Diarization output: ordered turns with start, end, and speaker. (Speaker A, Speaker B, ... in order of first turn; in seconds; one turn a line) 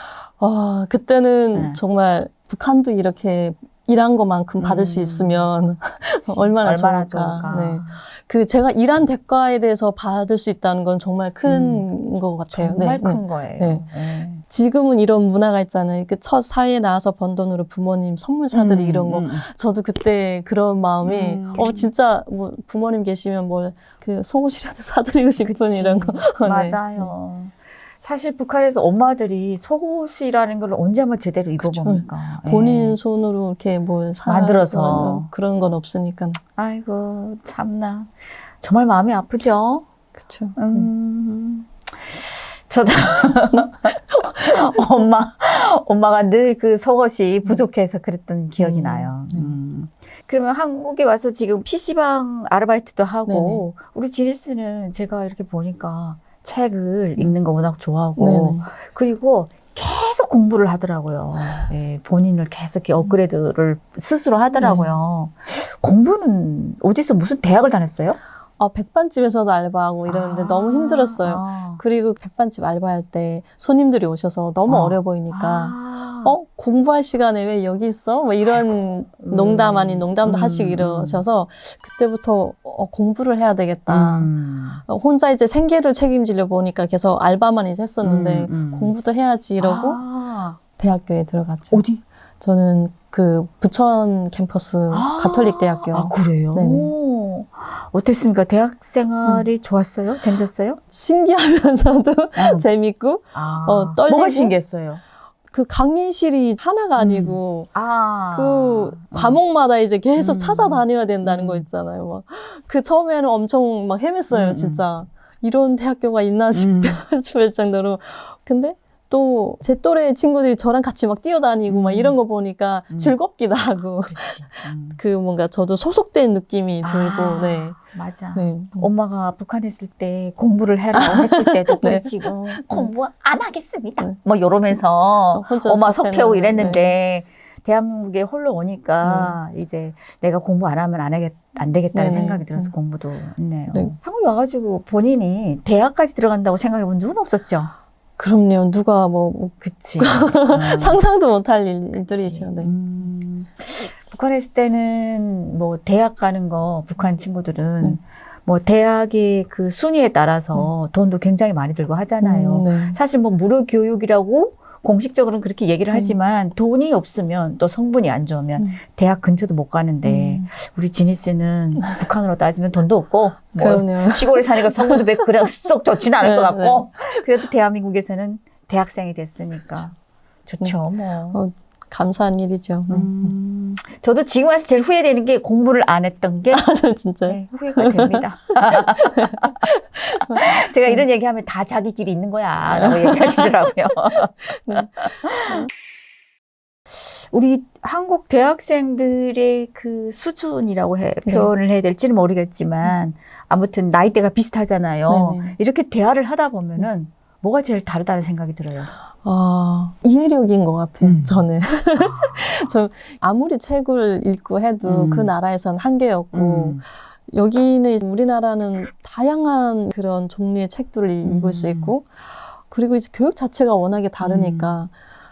Speaker A: 0.2-13.9
Speaker B: 1.5-1.8
Speaker B: 4.6-5.5
Speaker B: 6.3-8.0
Speaker B: 11.5-11.9
Speaker B: 12.5-14.4
Speaker A: 14.4-27.1
Speaker B: 18.5-19.4
Speaker B: 21.1-21.9
Speaker B: 25.4-33.0
Speaker A: 31.6-36.4
Speaker B: 34.3-35.3
Speaker B: 36.6-39.9
Speaker A: 40.2-40.9
Speaker B: 40.6-68.2
Speaker A: 44.1-44.6
Speaker A: 48.6-49.5
Speaker A: 53.3-53.6
Speaker A: 58.2-58.7
Speaker A: 64.6-65.0
Speaker A: 68.6-84.3
Speaker B: 70.1-71.8
Speaker B: 74.7-76.3
Speaker B: 79.2-81.2
Speaker B: 83.9-84.8
Speaker A: 84.9-90.0
Speaker B: 88.0-88.9
Speaker B: 89.6-90.6
Speaker A: 90.8-91.8
Speaker B: 91.7-92.0
Speaker A: 92.4-96.9
Speaker B: 94.9-100.8
Speaker A: 100.9-104.5
Speaker B: 102.4-102.7
Speaker B: 103.3-105.0
Speaker A: 105.5-107.7
Speaker B: 107.0-109.4
Speaker A: 108.3-127.8
Speaker B: 110.2-111.7
Speaker B: 114.3-114.8
Speaker B: 116.5-117.0
Speaker B: 121.7-122.2
Speaker B: 122.9-123.2
Speaker B: 124.0-125.0
Speaker B: 126.8-147.7
Speaker A: 128.3-128.9
Speaker A: 130.9-132.9
Speaker A: 135.3-136.9
Speaker A: 139.0-139.3
Speaker A: 141.9-142.7
Speaker A: 148.2-152.8
Speaker B: 149.6-151.0
Speaker B: 152.1-179.9
Speaker A: 162.2-163.0
Speaker A: 170.0-170.5
Speaker A: 173.6-175.1
Speaker A: 176.2-176.9
Speaker B: 180.5-181.4
Speaker A: 181.3-183.3
Speaker B: 182.9-186.7
Speaker A: 186.5-191.0
Speaker B: 187.3-189.7
Speaker B: 190.2-195.7
Speaker A: 192.7-195.6
Speaker B: 197.1-208.9
Speaker A: 205.1-205.6
Speaker A: 209.2-222.2
Speaker B: 211.0-211.4
Speaker B: 212.0-212.7
Speaker B: 214.8-215.3
Speaker B: 216.3-216.8
Speaker B: 221.2-221.9
Speaker A: 222.7-224.9
Speaker B: 224.2-224.7